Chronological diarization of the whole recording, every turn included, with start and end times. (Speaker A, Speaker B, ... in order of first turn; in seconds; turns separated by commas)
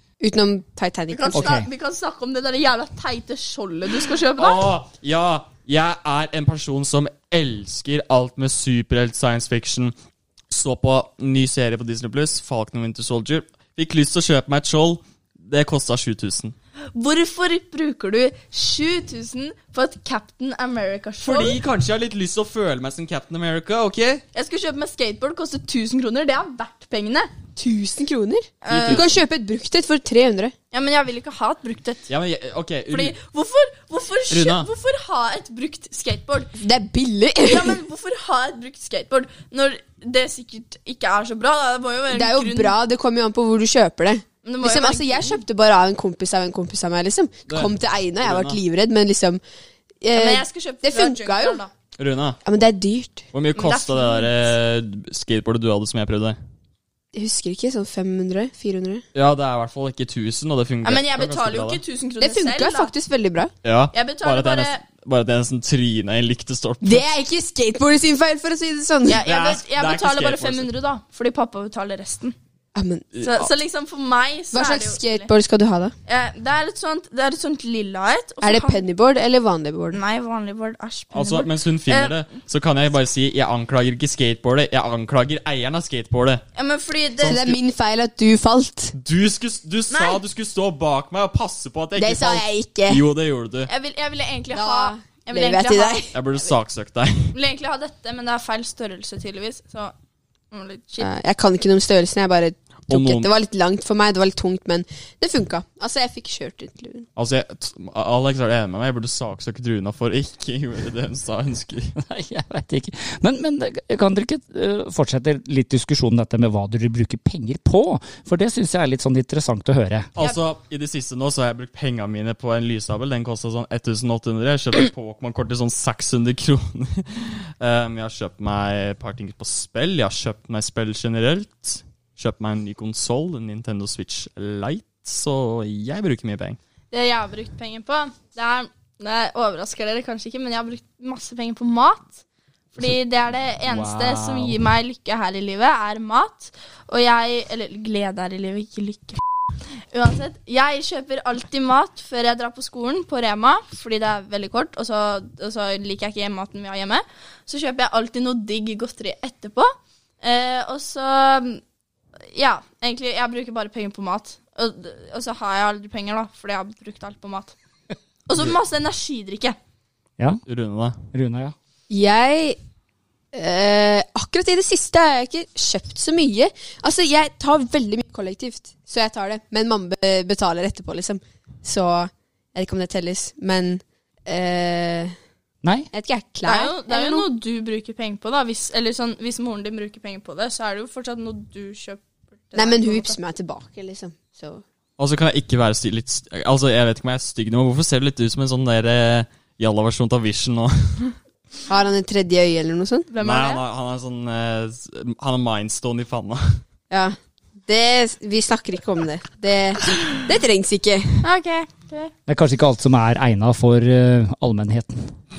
Speaker A: 0.2-1.5, Speaker B: 1.1-4.7, Speaker C: 1.3-1.7, Speaker D: 4.4-9.9, Speaker D: 10.5-16.6, Speaker B: 16.9-21.6, Speaker D: 21.2-24.2, Speaker B: 24.3-27.3, Speaker A: 27.6-30.5, Speaker B: 28.6-29.1, Speaker D: 28.7-29.2, Speaker B: 30.7-32.1, Speaker D: 32.1-33.2, Speaker B: 32.9-36.5, Speaker D: 34.3-34.7, Speaker A: 36.6-37.8, Speaker B: 37.5-42.7, Speaker A: 42.1-49.4, Speaker B: 44.4-45.4, Speaker D: 47.5-48.6, Speaker A: 50.0-51.6, Speaker B: 50.1-51.7, Speaker D: 52.0-52.4, Speaker A: 52.4-53.3, Speaker D: 53.3-56.4, Speaker B: 53.5-54.5, Speaker A: 57.1-59.0, Speaker D: 59.1-61.8, Speaker B: 60.8-62.9, Speaker A: 62.2-63.5, Speaker D: 63.6-67.0, Speaker B: 63.9-64.8, Speaker A: 66.8-69.2, Speaker B: 69.1-72.3, Speaker D: 69.2-70.7, Speaker A: 72.8-73.1, Speaker D: 73.1-73.5, Speaker B: 73.2-75.3, Speaker A: 74.5-75.9, Speaker B: 76.1-78.8, Speaker A: 78.4-80.0, Speaker B: 79.9-82.2, Speaker D: 81.1-86.4, Speaker B: 86.6-87.4, Speaker D: 87.2-87.6, Speaker A: 87.2-88.9, Speaker D: 89.0-93.7, Speaker B: 89.9-90.2, Speaker A: 92.0-93.1, Speaker B: 93.7-96.0, Speaker A: 94.5-96.4, Speaker D: 96.1-97.3, Speaker B: 97.3-99.9, Speaker B: 100.5-101.1, Speaker A: 101.0-107.1, Speaker D: 102.9-103.3, Speaker D: 107.2-111.9, Speaker C: 112.0-120.1, Speaker D: 120.2-136.6, Speaker B: 136.9-142.2, Speaker B: 142.7-149.2, Speaker D: 143.7-144.6, Speaker B: 149.9-159.7, Speaker B: 160.2-161.6, Speaker B: 162.3-167.5, Speaker B: 168.3-169.6, Speaker D: 170.5-170.9, Speaker C: 171.1-171.6, Speaker A: 171.9-172.6, Speaker A: 173.3-185.2, Speaker C: 185.6-185.9, Speaker A: 185.9-187.3, Speaker B: 186.5-193.2, Speaker A: 192.6-194.6, Speaker D: 195.0-201.2, Speaker A: 201.7-203.1, Speaker B: 203.1-203.6, Speaker D: 203.2-206.6, Speaker A: 206.9-211.2, Speaker B: 211.2-212.1, Speaker C: 212.3-215.1